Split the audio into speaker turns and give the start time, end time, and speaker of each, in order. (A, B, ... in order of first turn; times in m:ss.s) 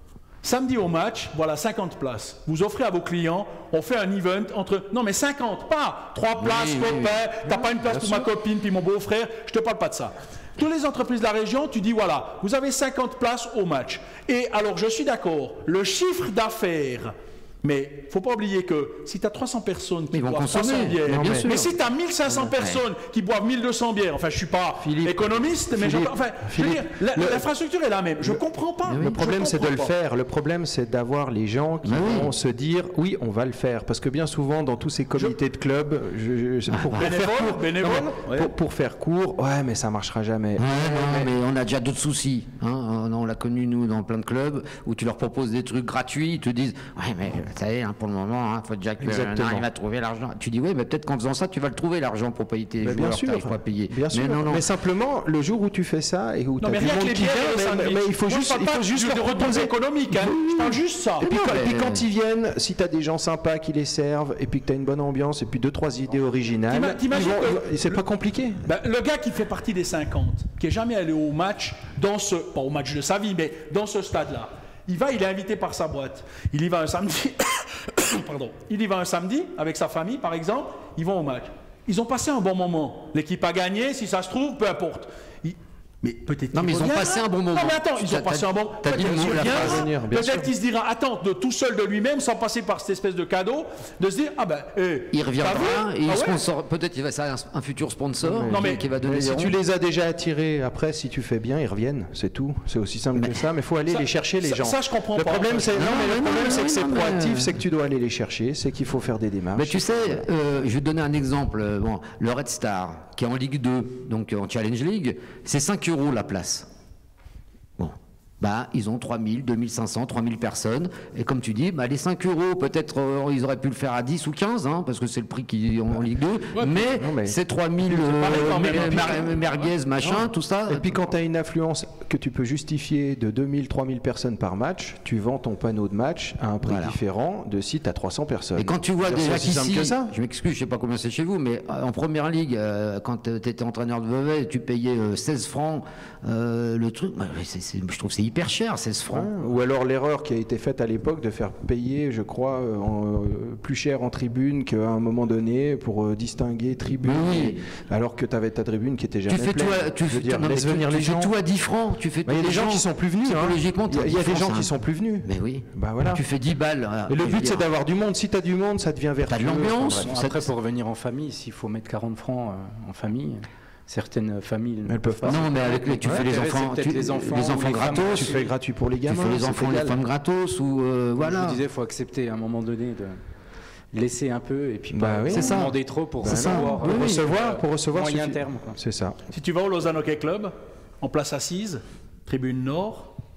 0:00.4-0:29.9 A
0:06.4-0:07.2 B
0:07.7-0:08.3 C
0:20.1-0:21.7 B
0:21.0-0:21.5 C
0:24.8-0:27.4 C
0:28.2-0:41.3 C
0:31.8-0:32.3 B
0:36.7-0:37.1 B
0:37.0-0:38.5 A
0:40.6-0:54.6 B
0:49.0-0:49.7 C
0:52.8-1:00.4 C
0:56.6-1:01.3 A
1:00.4-1:02.0 B
1:01.2-1:08.7 C
1:06.7-1:08.0 A
1:08.6-1:36.4 A
1:26.5-1:29.9 B
1:29.2-1:30.5 C
1:35.1-1:39.5 B
1:38.2-1:50.2 C
1:38.5-1:38.8 A
1:43.9-1:45.9 A
1:45.7-1:47.6 B
1:49.6-1:56.7 B
1:57.8-2:10.9 B
2:06.5-2:06.8 A
2:06.8-2:07.4 C
2:07.9-2:09.7 A
2:08.8-2:09.1 C
2:10.0-2:20.1 C
2:16.6-2:17.0 B
2:18.6-2:29.3 B
2:29.1-2:41.3 C
2:37.0-2:37.6 B
2:39.3-2:44.7 B
2:42.2-2:46.2 C
2:45.2-2:47.6 B
2:47.1-2:50.1 C
2:49.3-2:50.5 B
2:49.9-2:58.5 D
2:54.9-2:56.3 C
2:55.2-2:58.4 B
2:57.7-3:00.0 C
2:59.0-3:01.6 B
3:01.2-3:03.2 D
3:03.9-3:08.8 D
3:04.9-3:09.2 C
3:05.3-3:07.2 B
3:09.3-3:13.1 A